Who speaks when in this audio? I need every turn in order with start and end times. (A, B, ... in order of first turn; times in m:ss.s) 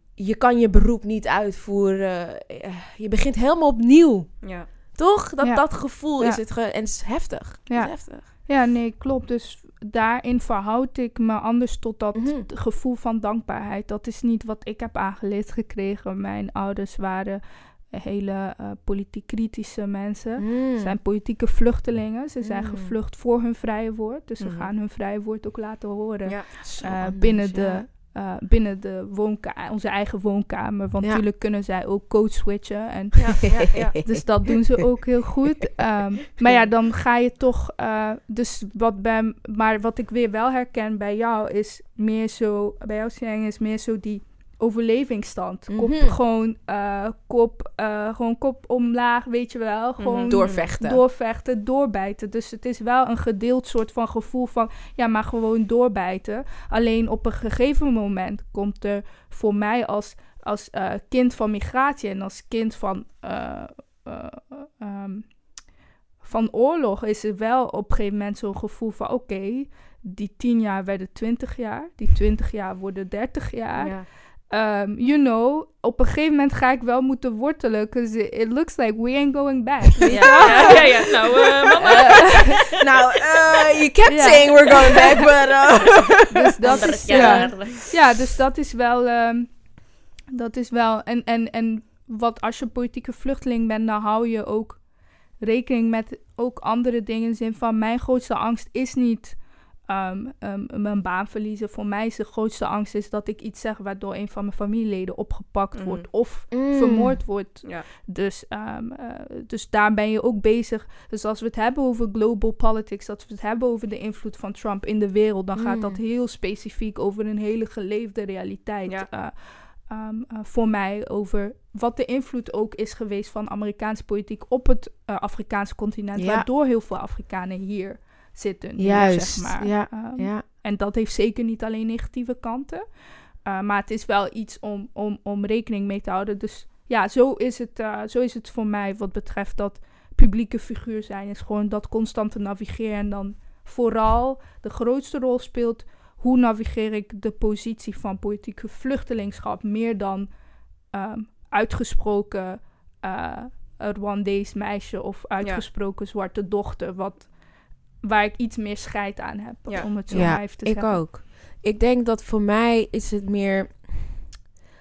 0:00.2-0:04.4 A
0:04.4-0:04.7 B
0:04.9-0:08.2 A
0:05.4-0:06.4 C
0:07.7-1:05.4 C
0:12.1-0:12.5 A
0:20.4-0:21.0 A
0:22.4-0:23.0 A
0:24.4-0:24.7 B
0:26.3-0:27.8 A
0:33.1-0:34.5 A
0:33.5-0:34.0 B
0:45.7-0:46.2 A
0:50.0-0:50.7 B
0:50.3-0:51.0 A
1:06.2-1:22.6 C
1:13.8-1:14.1 B
1:20.0-1:27.8 A
1:20.1-1:23.6 B
1:24.0-1:25.3 C
1:26.3-1:29.6 C
1:26.7-1:27.8 B
1:30.3-1:34.8 C
1:35.4-2:12.8 C
1:45.7-1:46.1 B
1:46.5-1:47.2 A
1:55.6-1:56.0 A
2:06.2-2:06.5 A
2:08.8-2:10.4 A
2:13.4-2:30.3 C
2:30.9-2:37.3 C
2:38.0-2:41.0 C
2:39.7-2:40.3 B
2:40.1-2:44.2 A